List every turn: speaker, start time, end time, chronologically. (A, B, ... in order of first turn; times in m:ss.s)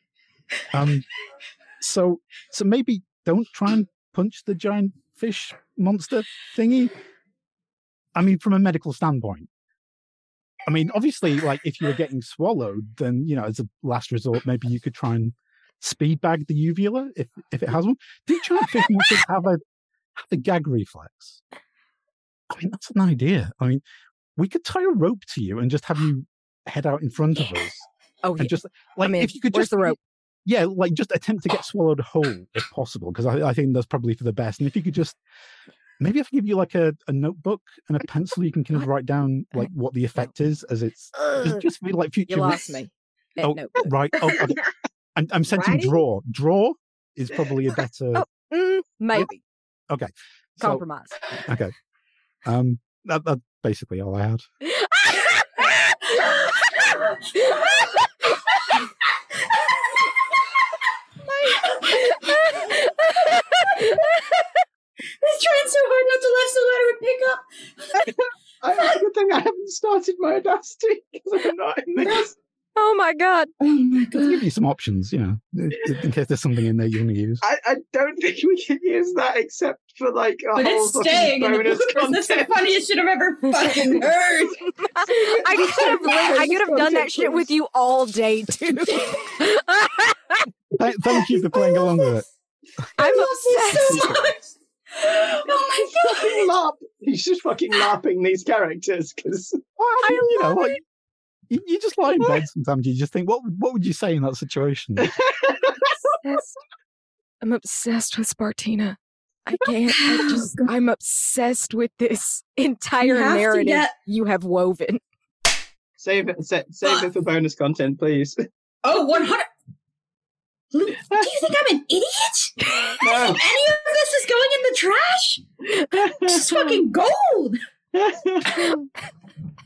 0:00.7-0:01.0 A
0:01.8-0:06.9 A
0:08.1-0:09.5 A
0:10.6-0:19.6 A
0:20.2-0:21.4 A
0:22.5-0:23.8 A
0:24.4-0:27.8 A
0:28.2-0:30.0 B
0:28.4-0:35.2 A
0:36.0-0:42.8 A
0:42.3-0:44.3 B
0:43.4-0:44.6 A
0:45.2-0:48.3 A
0:45.5-0:46.0 B
0:48.1-0:49.4 B
0:49.9-0:50.8 A
0:50.6-0:51.2 B
0:51.4-0:51.7 A
0:52.4-0:54.4 A
0:56.8-0:57.8 C
1:01.5-1:02.6 C
1:02.5-1:03.8 B
1:05.2-1:08.1 C
1:08.1-1:12.3 D
1:12.8-1:13.5 B
1:13.6-1:14.4 C
1:14.1-1:17.4 A
1:17.4-1:22.7 D
1:20.5-1:24.7 C
1:25.0-1:30.4 B
1:25.1-1:27.4 D
1:30.8-1:32.2 A
1:33.0-1:34.2 B
1:33.0-1:36.5 C
1:33.9-1:34.2 A
1:35.8-1:39.6 D
1:39.8-1:40.8 A
1:40.0-1:40.7 B
1:41.5-1:45.1 A
1:45.0-1:45.9 D
1:46.2-1:46.6 B
1:47.4-1:55.0 B
1:49.9-1:50.7 C
1:53.0-1:53.9 C
1:56.0-1:58.4 D
1:58.8-1:59.5 C
2:00.7-2:05.4 C
2:03.0-2:03.4 D
2:06.0-2:07.6 C
2:06.1-2:06.4 D
2:07.9-2:08.8 D